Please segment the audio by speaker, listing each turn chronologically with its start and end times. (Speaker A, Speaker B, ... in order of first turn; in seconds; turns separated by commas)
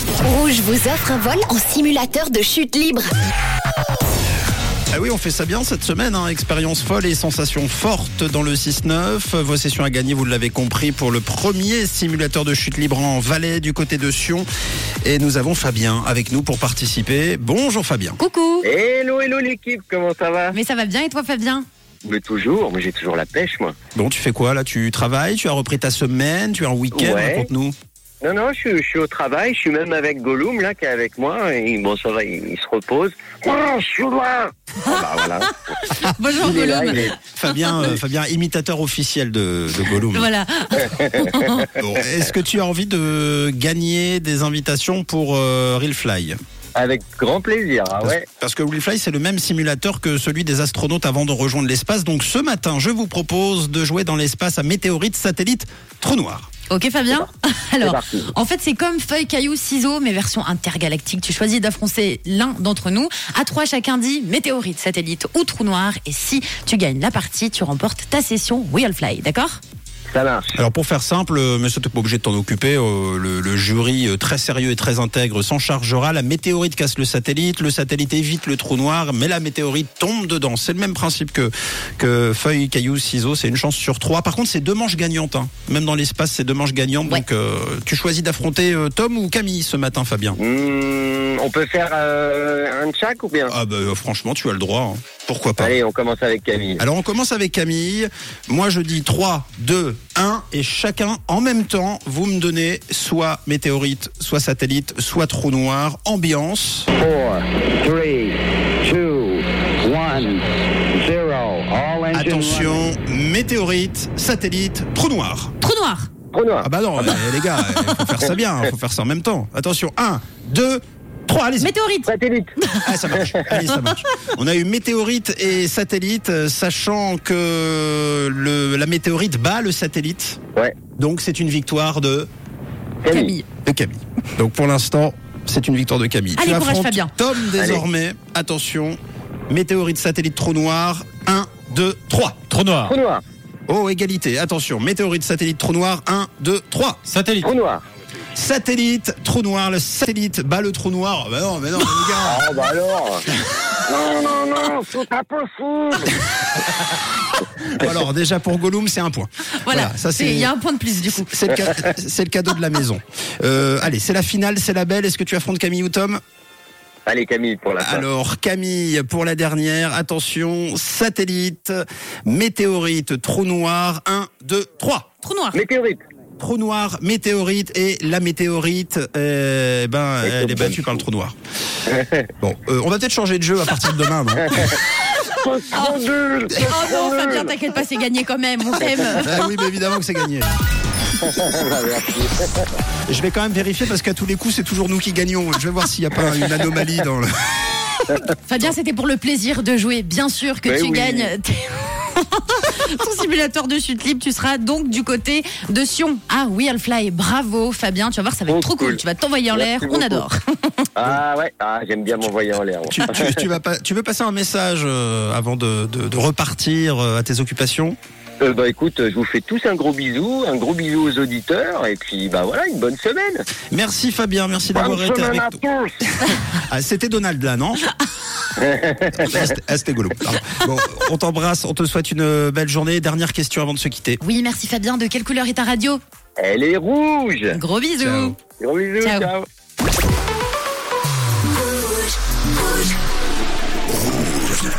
Speaker A: 0.2-3.2, Speaker B: 4.9-14.5, Speaker B: 15.0-18.2, Speaker C: 18.2-18.7, Speaker D: 18.6-20.6, Speaker C: 20.5-21.6, Speaker D: 22.0-23.7, Speaker B: 23.9-27.7, Speaker D: 26.9-27.5, Speaker D: 28.2-35.5, Speaker C: 34.8-37.1, Speaker D: 36.3-37.2, Speaker B: 37.3-40.3, Speaker C: 40.0-41.7, Speaker D: 40.9-41.6, Speaker B: 41.7-46.4, Speaker D: 46.7-48.2, Speaker B: 48.0-56.5, Speaker C: 56.7-69.6, Speaker D: 57.8-58.3, Speaker D: 70.1-70.6, Speaker B: 70.5-90.4, Speaker D: 90.4-93.5, Speaker B: 93.5-95.7, Speaker D: 95.6-96.8, Speaker B: 96.8-106.9, Speaker E: 106.9-110.4, Speaker E: 111.0-112.8, Speaker B: 112.1-115.5, Speaker C: 115.6-116.1, Speaker D: 116.3-116.7, Speaker B: 116.6-121.7, Speaker C: 121.6-123.0, Speaker D: 122.0-122.5, Speaker B: 122.8-130.4, Speaker D: 123.1-123.5, Speaker B: 131.0-132.3, Speaker D: 133.0-133.3, Speaker C: 133.1-133.4, Speaker B: 133.6-139.0, Speaker C: 136.4-137.1, Speaker D: 137.5-137.8, Speaker B: 139.5-142.9, Speaker D: 142.8-143.2, Speaker B: 143.7-147.2, Speaker A: 147.2-147.4, Speaker D: 147.4-147.8, Speaker B: 148.3-152.4, Speaker D: 152.2-153.3, Speaker D: 153.8-156.2, Speaker B: 157.6-160.5, Speaker C: 159.6-161.7, Speaker B: 161.1-166.2, Speaker D: 167.1-168.1, Speaker B: 167.8-175.1, Speaker C: 175.2-175.6, Speaker D: 175.5-176.0, Speaker B: 176.4-181.3, Speaker D: 180.2-181.0, Speaker D: 181.8-182.3, Speaker B: 182.4-184.8, Speaker D: 184.5-187.5, Speaker C: 185.7-186.0, Speaker C: 186.6-189.3, Speaker B: 189.1-190.5, Speaker D: 191.2-192.7, Speaker B: 193.1-197.5, Speaker C: 198.5-210.9, Speaker D: 200.6-201.3, Speaker D: 208.5-209.0, Speaker D: 209.5-210.2, Speaker D: 210.9-213.4, Speaker B: 212.9-218.0, Speaker D: 218.4-223.5, Speaker B: 223.7-227.8, Speaker D: 224.7-226.0, Speaker D: 228.6-229.4, Speaker B: 229.2-234.2, Speaker C: 234.2-236.0, Speaker D: 236.4-237.6, Speaker C: 237.5-238.3, Speaker B: 238.0-238.4, Speaker D: 238.5-239.5, Speaker C: 239.0-239.3